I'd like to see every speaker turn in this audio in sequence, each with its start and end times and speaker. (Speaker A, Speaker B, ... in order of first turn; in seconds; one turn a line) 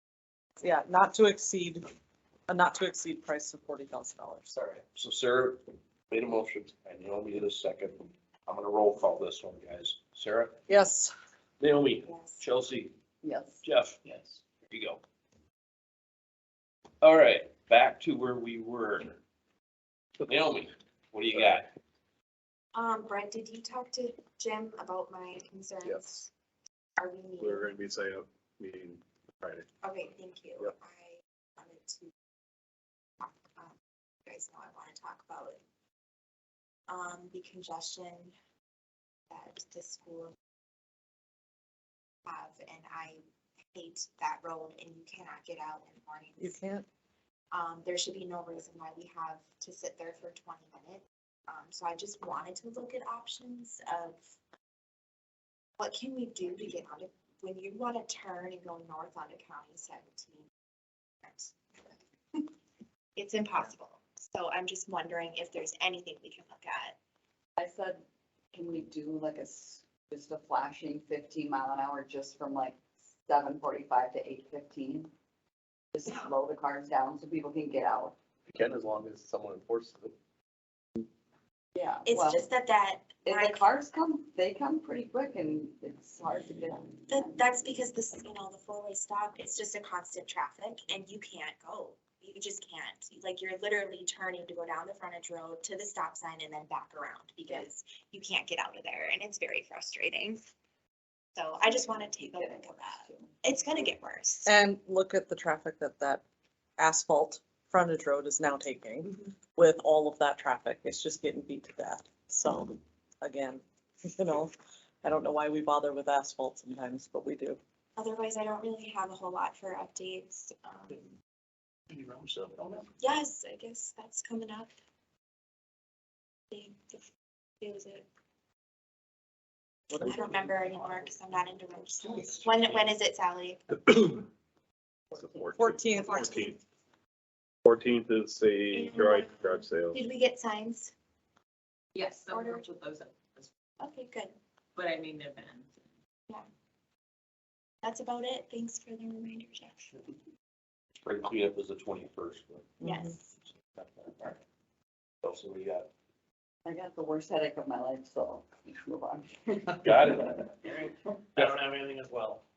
Speaker A: 0.6-1.9
Speaker A: 2.5-4.6
Speaker B: 4.9-10.6
Speaker A: 10.7-11.1
Speaker B: 11.6-12.9
Speaker C: 12.0-12.4
Speaker D: 13.2-13.6
Speaker B: 13.6-14.0
Speaker B: 14.7-15.0
Speaker B: 17.0-19.2
Speaker B: 20.2-21.7
Speaker C: 22.7-26.3
Speaker E: 25.8-26.2
Speaker C: 27.0-27.7
Speaker E: 27.4-29.6
Speaker C: 29.8-32.1
Speaker C: 33.2-33.7
Speaker C: 34.3-35.6
Speaker C: 36.9-38.3
Speaker C: 39.3-40.3
Speaker C: 42.2-43.2
Speaker C: 43.7-46.6
Speaker A: 46.4-46.9
Speaker C: 47.5-54.3
Speaker C: 55.8-60.5
Speaker C: 61.2-61.5
Speaker C: 63.1-67.0
Speaker D: 67.6-68.0
Speaker D: 68.5-75.1
Speaker D: 75.9-78.1
Speaker D: 81.7-82.5
Speaker C: 82.0-83.7
Speaker D: 83.2-87.4
Speaker C: 87.1-100.4
Speaker C: 101.3-104.5
Speaker D: 101.6-103.9
Speaker A: 104.4-106.2
Speaker A: 106.8-117.6
Speaker C: 118.0-121.1
Speaker F: 121.9-122.9
Speaker C: 123.0-124.7
Speaker C: 126.5-127.0
Speaker C: 127.6-128.1
Speaker A: 129.9-130.6
Speaker C: 129.9-133.6
Speaker B: 132.7-132.9
Speaker E: 133.7-134.3
Speaker E: 135.1-136.6
Speaker A: 135.5-136.3
Speaker C: 136.1-136.5
Speaker E: 137.6-140.0
Speaker C: 138.7-140.9
Speaker G: 141.9-143.5
Speaker C: 143.8-144.3
Speaker G: 144.8-145.7
Speaker C: 147.8-150.0
Speaker B: 151.0-152.8
Speaker A: 152.8-153.1
Speaker C: 152.8-153.3
Speaker B: 153.4-154.4
Speaker B: 155.2-155.9
Speaker D: 156.6-160.9
Speaker B: 159.8-160.7
Speaker F: 161.3-162.4